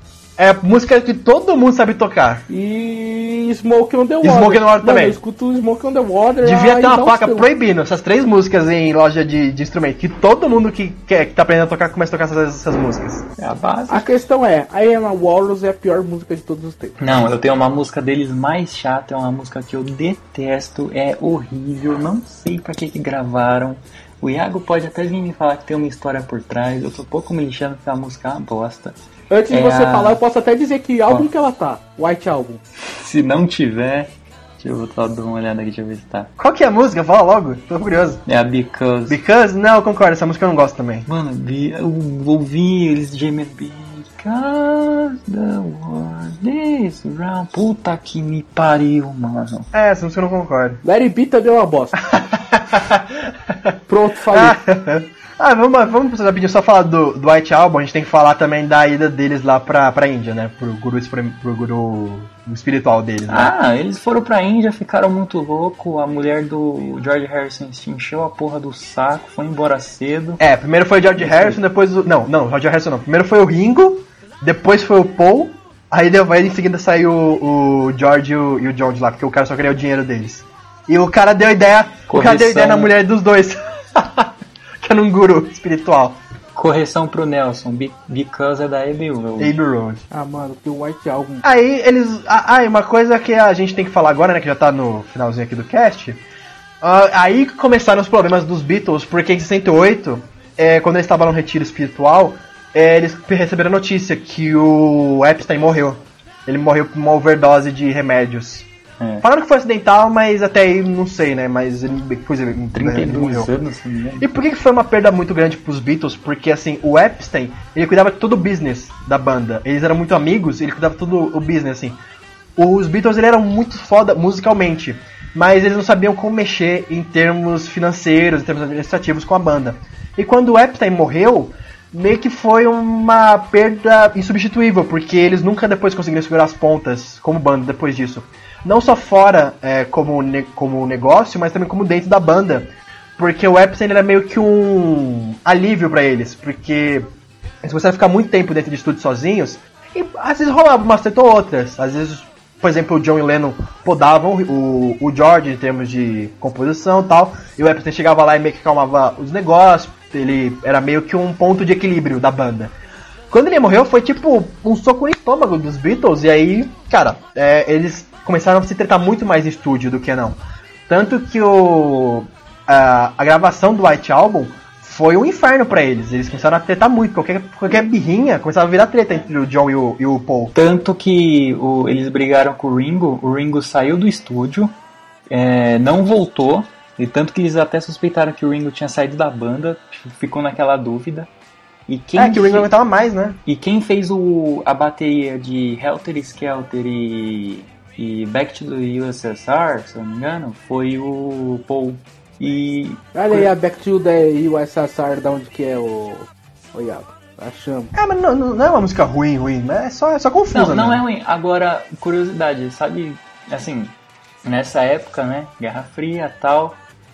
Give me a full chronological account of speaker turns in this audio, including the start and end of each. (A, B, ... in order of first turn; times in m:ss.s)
0:00.4-0:02.5 A
0:02.5-0:07.5 B
0:04.2-0:05.2 A
0:06.4-0:13.2 A
0:13.4-0:14.0 C
0:13.9-0:17.0 B
0:17.0-0:29.0 C
0:29.3-0:32.6 B
0:29.5-0:30.2 C
0:32.9-0:36.3 C
0:36.4-0:38.2 A
0:38.3-0:39.2 C
0:39.1-0:41.1 A
0:41.1-0:49.7 C
0:49.7-0:50.8 A
0:50.8-0:52.0 B
0:52.1-0:53.1 A
0:53.9-0:54.6 B
0:54.3-1:03.5 A
1:03.3-1:10.4 C
1:10.4-1:26.2 A
1:11.2-1:11.6 C
1:22.1-1:22.9 C
1:26.6-1:29.6 C
1:29.4-1:30.1 A
1:30.1-1:31.4 B
1:31.4-1:36.2 A
1:36.8-1:48.7 A
1:49.0-1:49.2 C
1:49.2-1:53.5 A
1:52.7-1:54.2 C
1:54.2-2:02.0 A
2:02.6-2:27.1 A
2:27.6-2:42.7 A
2:43.3-3:00.5 A
3:00.5-3:04.7 C
3:05.3-3:11.3 C
3:11.9-3:12.7 C
3:12.2-3:13.4 A
3:13.4-3:23.0 C
3:23.1-3:27.9 B
3:27.9-3:31.0 A
3:30.5-3:33.9 C
3:34.4-3:36.8 C